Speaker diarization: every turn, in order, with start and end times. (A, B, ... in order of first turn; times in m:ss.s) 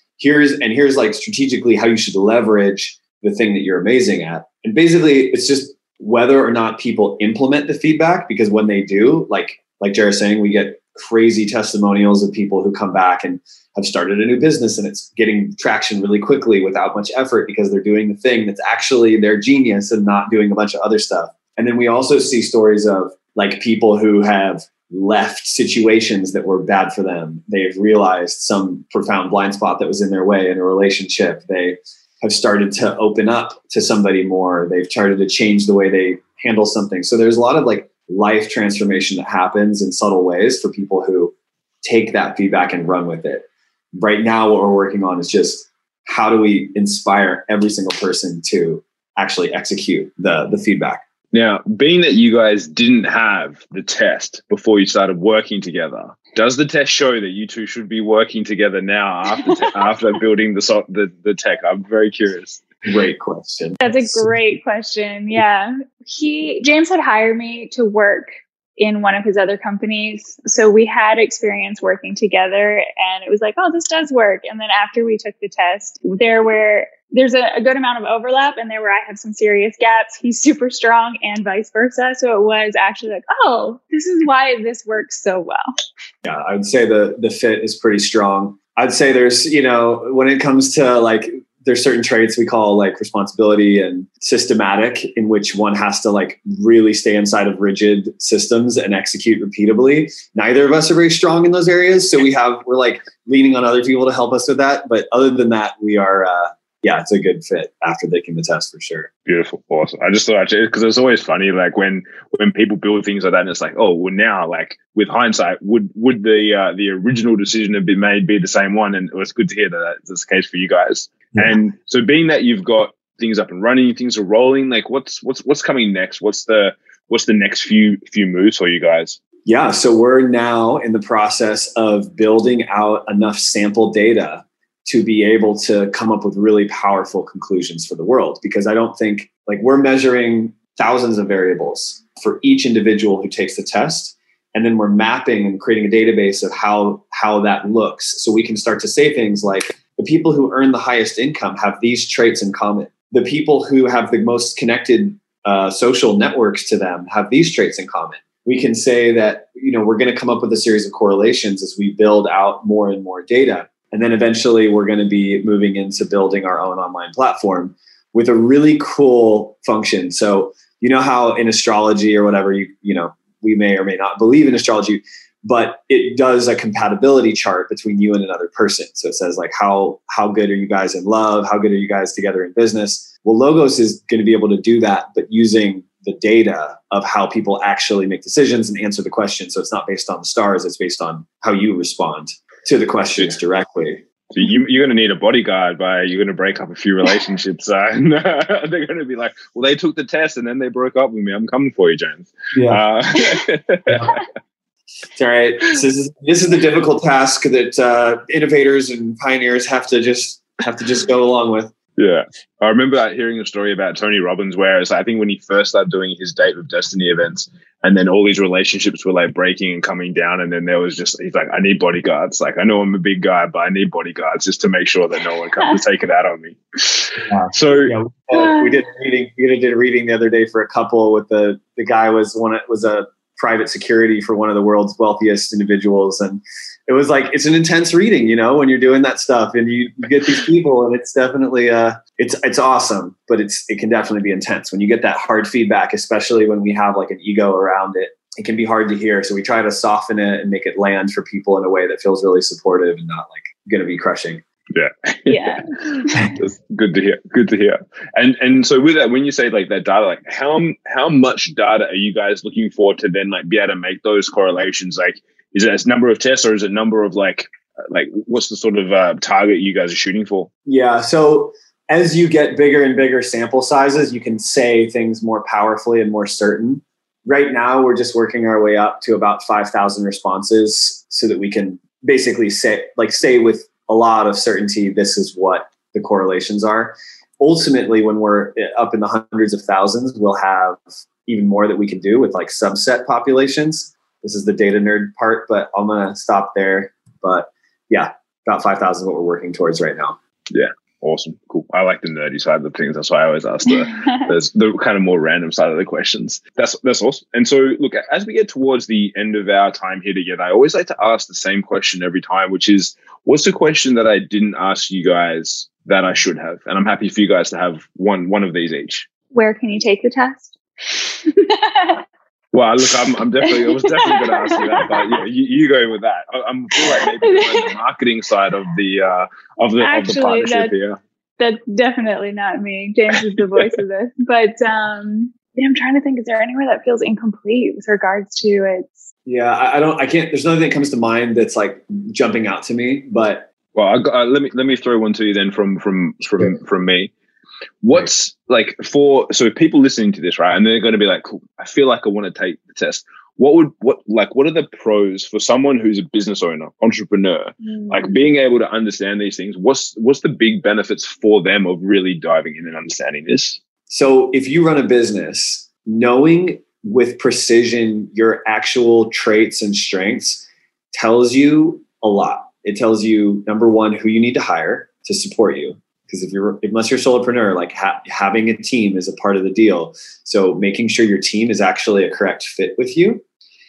0:00.2-0:51.0 A
0:51.3-1:02.6 B
1:02.8-1:04.3 A
1:03.8-1:25.7 C
1:26.2-1:49.1 A
1:49.2-2:09.2 B
2:01.3-2:01.6 A
2:09.4-3:14.0 A
3:14.3-3:24.2 B
3:22.5-3:22.8 A
3:23.9-3:24.1 A
3:25.1-3:31.7 A
3:32.0-3:47.9 B
3:47.2-4:14.4 A
3:48.3-3:48.8 C
4:14.7-4:30.5 B
4:15.3-4:16.4 C
4:30.6-5:00.2 A
5:00.5-5:19.0 B
5:03.7-5:04.3 C
5:19.3-5:22.0 C
5:22.5-5:31.0 B
5:23.4-5:25.1 C
5:26.9-5:27.7 C
5:29.8-5:30.7 C
5:31.4-5:39.1 C
5:39.2-5:43.5 A
5:43.7-5:47.1 B
5:47.8-6:03.6 B
5:57.6-5:58.2 C
6:03.9-6:23.2 A